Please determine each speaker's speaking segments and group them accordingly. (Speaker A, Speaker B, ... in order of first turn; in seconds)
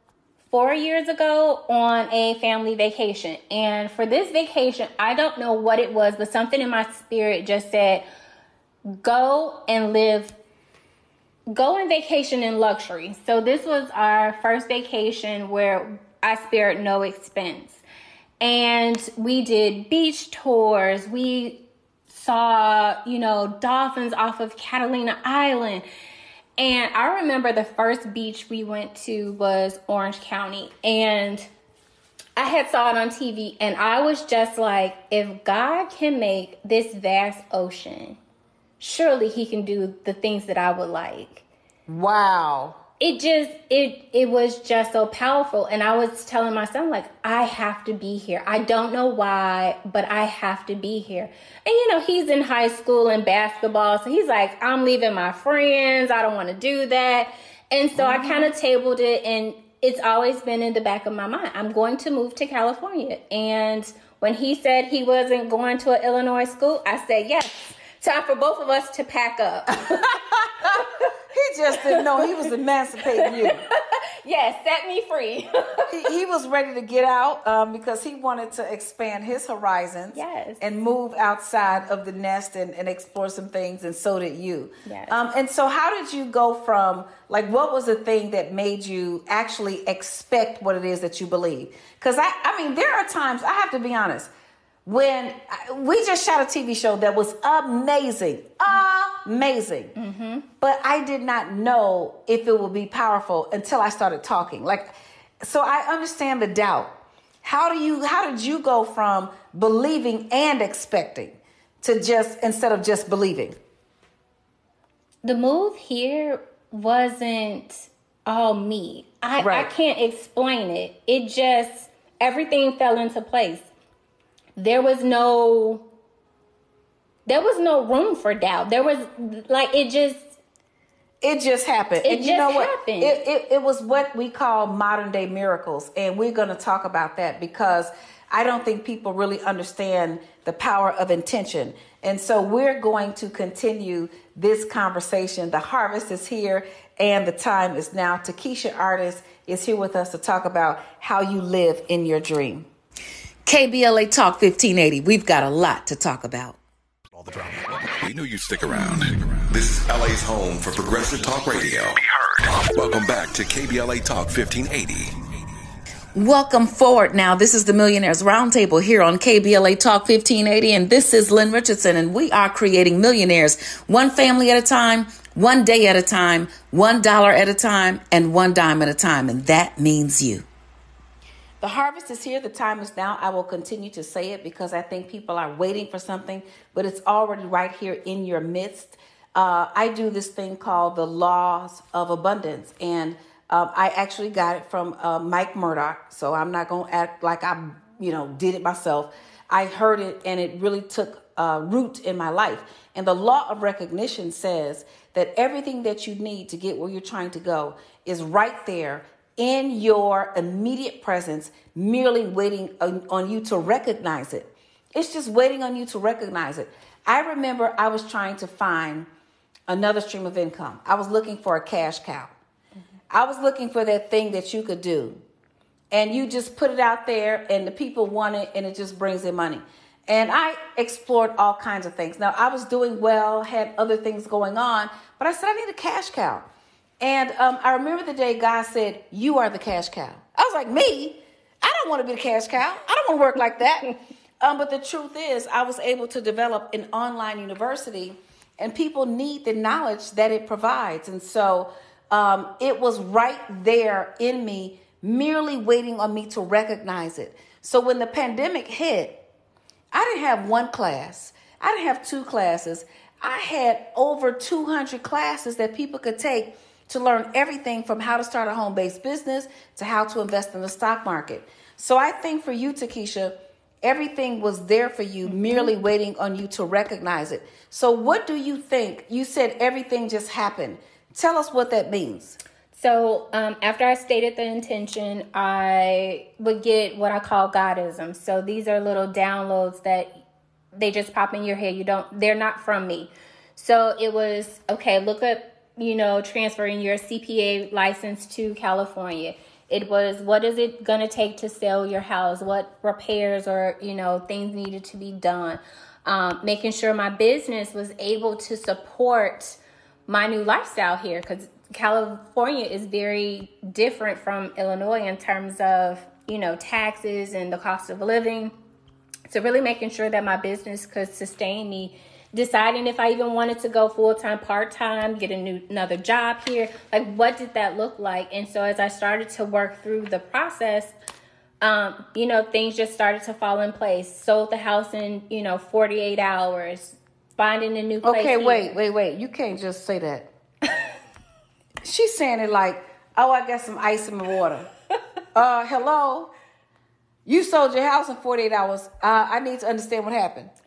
Speaker A: 0.5-8.0, 8.9-10.3, 11.5-17.8, 18.4-25.8, 26.6-31.5, 32.4-38.2, 38.8-41.5, 43.0-71.0, 71.8-72.2, 73.2-75.9, 80.1-80.6, 84.8-85.2, 100.0-100.5, 115.2-123.7, 124.6-125.9, 127.2-130.4, 132.0-133.2, 275.3-275.7, 282.7-290.2, 290.7-318.5, 319.3-330.9, 331.6-338.7
Speaker B: 41.9-42.8, 57.9-58.5, 70.6-73.6, 75.9-94.3, 94.8-99.9, 100.6-113.5, 119.4-119.7, 131.2-152.7, 153.4-156.6, 166.1-180.4, 181.6-219.1, 219.7-222.3, 223.1-225.2, 225.9-236.5, 237.0-259.2, 259.9-282.4, 338.0-340.3, 341.8-344.7, 345.3-346.3, 347.2-350.5
Speaker C: 157.2-165.2